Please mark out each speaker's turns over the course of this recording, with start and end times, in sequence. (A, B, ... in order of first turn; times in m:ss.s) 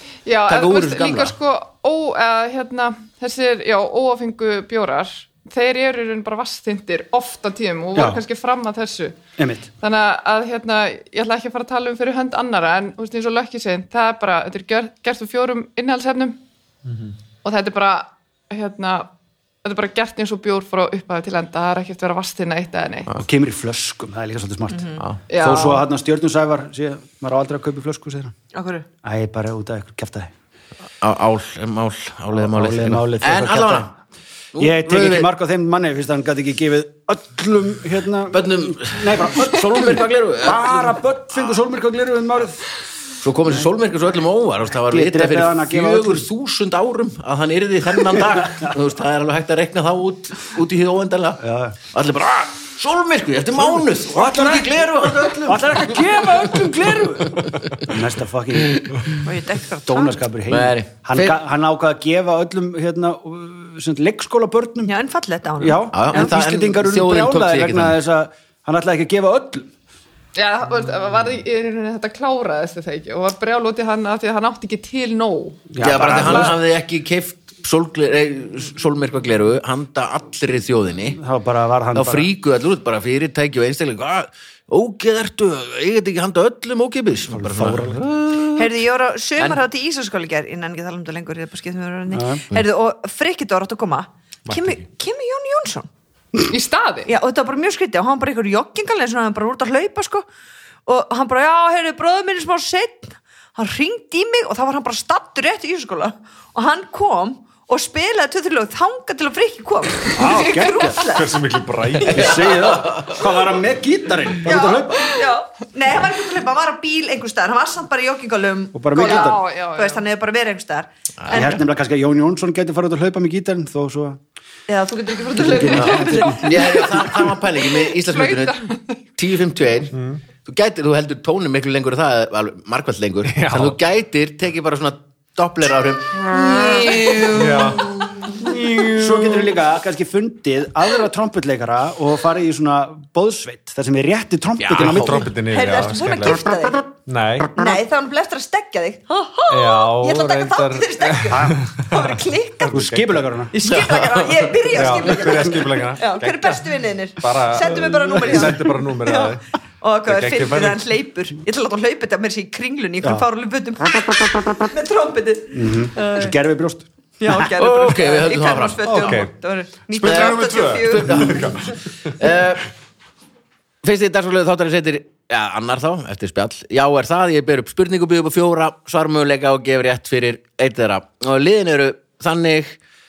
0:00.2-0:09.2 A
0:00.5-0:01.4 B
0:08.0-0:08.2 C
0:09.4-0:09.7 C
0:09.8-0:16.4 A
0:17.4-0:19.1 A
0:19.6-0:23.1 A
0:23.2-0:28.4 C
0:24.7-0:25.0 D
0:25.3-0:25.8 A
0:28.5-0:28.9 D
0:29.0-0:30.3 C
0:31.0-0:33.9 B
0:32.3-0:34.0 C
0:34.5-0:35.3 B
0:34.6-0:42.7 C
0:38.3-0:41.0 B
0:43.2-0:56.5 B
0:44.8-0:46.3 C
0:48.0-0:48.7 C
0:51.4-0:51.8 C
0:53.6-0:58.9 C
0:57.4-0:57.9 B
0:58.6-0:59.2 B
0:59.2-1:00.2 D
0:59.9-1:04.9 C
1:00.5-1:01.4 B
1:04.9-1:06.3 D
1:05.6-1:09.7 C
1:05.9-1:08.0 B
1:10.4-1:16.5 A
1:15.7-1:16.6 C
1:15.8-1:21.2 B
1:21.2-1:22.3 C
1:22.0-1:28.7 B
1:27.3-1:28.0 C
1:28.6-1:35.9 D
1:32.1-1:32.4 C
1:34.5-1:34.8 E
1:36.5-1:37.1 A
1:37.1-1:40.3 D
1:40.9-1:51.4 D
1:50.2-1:51.1 C
1:51.0-1:52.8 E
1:52.0-1:53.2 B
1:52.1-1:55.2 C
1:54.4-2:01.6 D
1:58.7-1:59.4 C
1:59.0-2:00.0 A
2:01.2-2:01.6 B
2:01.3-2:04.2 C
2:04.7-2:07.1 D
2:05.4-2:06.6 C
2:05.8-2:07.0 A
2:05.8-2:08.6 B
2:07.6-2:09.0 A
2:09.2-2:17.4 B
2:09.9-2:10.2 E
2:13.3-2:13.8 E
2:16.3-2:17.7 D
2:16.6-2:17.2 A
2:17.2-2:19.3 E
2:18.4-2:25.3 C
2:24.6-2:25.3 B
2:24.7-2:26.4 E
2:25.4-2:26.9 D
2:27.1-2:27.5 E
2:27.6-2:32.9 D
2:29.5-2:33.2 E
2:31.3-2:31.6 C
2:32.7-2:33.6 C
2:33.5-2:46.4 D
2:33.6-2:34.7 B
2:34.7-2:36.7 E
2:37.2-2:39.4 E
2:40.1-2:40.8 E
2:45.5-2:47.5 C
2:47.2-2:51.5 D
2:47.6-2:49.2 B
2:48.8-2:49.3 E
2:49.9-2:52.1 E
2:50.0-2:52.7 B
2:53.8-3:02.8 B